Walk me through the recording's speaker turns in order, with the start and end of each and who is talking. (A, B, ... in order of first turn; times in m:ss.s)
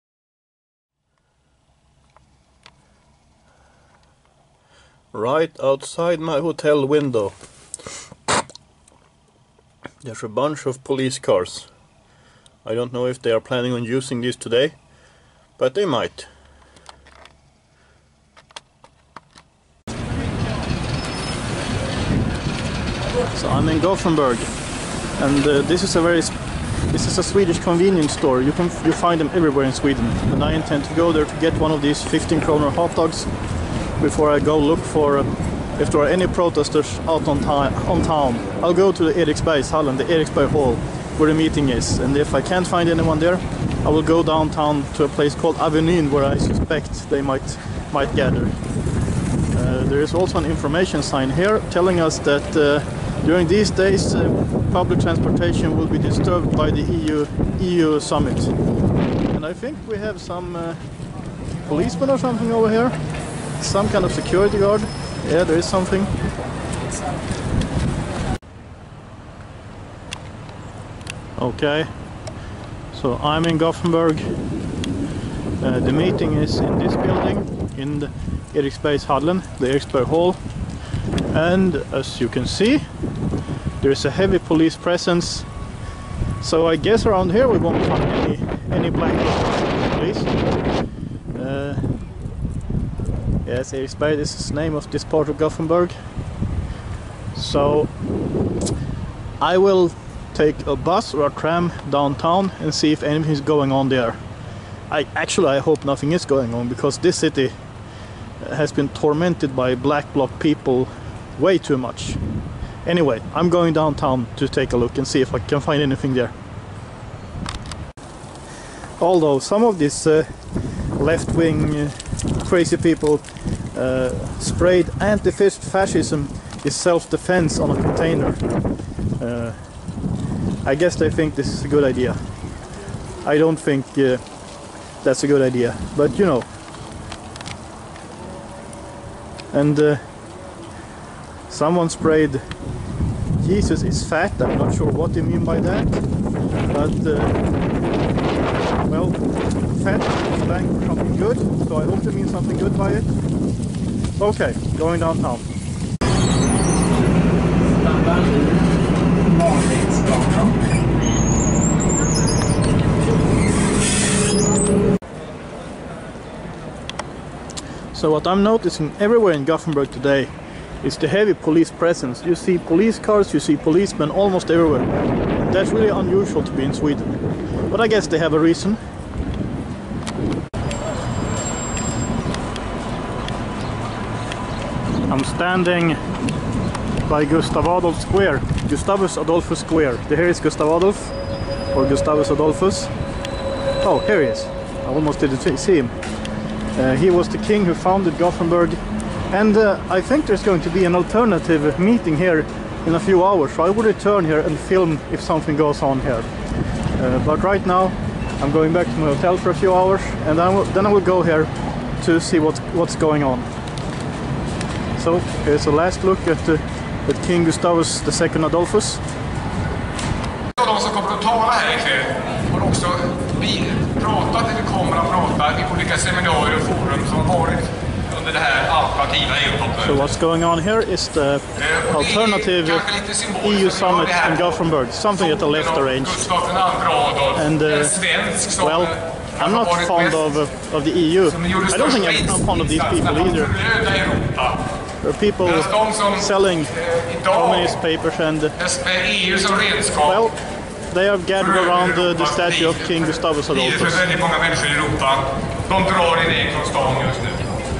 0:05.1-0:07.3 A
0:10.0-0:11.7 A
0:12.6-0:14.7 A
0:15.6-0:16.3 A
0:23.3-0:24.5 A
0:25.2-0:26.3 A
0:26.9-0:33.3 A
0:34.0-0:48.6 A
0:49.5-0:58.5 A
0:59.3-1:00.8 A
1:01.6-1:03.0 A
1:03.6-1:06.1 A
1:11.4-1:11.9 A
1:12.9-1:14.2 A
1:15.6-1:20.4 A
1:21.3-1:22.8 A
1:23.8-1:25.5 A
1:26.4-1:30.3 A
1:31.3-1:31.8 A
1:33.4-1:35.9 A
1:37.3-1:37.9 A
1:39.4-1:44.2 A
1:44.9-1:47.5 A
1:48.4-1:52.2 A
1:52.8-1:56.3 A
1:59.0-2:00.3 A
2:01.0-2:08.4 A
2:09.2-2:09.6 A
2:10.6-2:12.2 A
2:13.2-2:14.2 A
2:15.0-2:16.4 A
2:19.5-2:20.0 A
2:21.5-2:22.4 A
2:23.4-2:26.0 A
2:26.7-2:27.4 A
2:28.9-2:33.1 A
2:34.2-2:35.4 A
2:47.9-2:57.1 A
2:57.7-2:58.8 A
3:05.1-3:06.0 A
3:07.0-3:11.2 A
3:11.7-3:12.9 A
3:13.8-3:15.9 A
3:16.8-3:18.8 A
3:19.3-3:26.3 A
3:27.0-3:33.5 A
3:35.0-3:39.0 A
3:40.6-3:50.0 B
3:49.8-3:56.3 A
3:51.6-3:54.5 B
3:55.2-3:58.8 B
3:57.3-4:03.6 A
3:59.4-4:00.2 B
4:01.3-4:04.6 B
4:05.0-4:08.6 A
4:05.4-4:06.2 B
4:06.8-4:07.7 B
4:08.6-4:10.2 B
4:10.0-4:10.4 A
4:10.9-4:14.1 A
4:11.4-4:13.0 B
4:13.5-4:17.5 B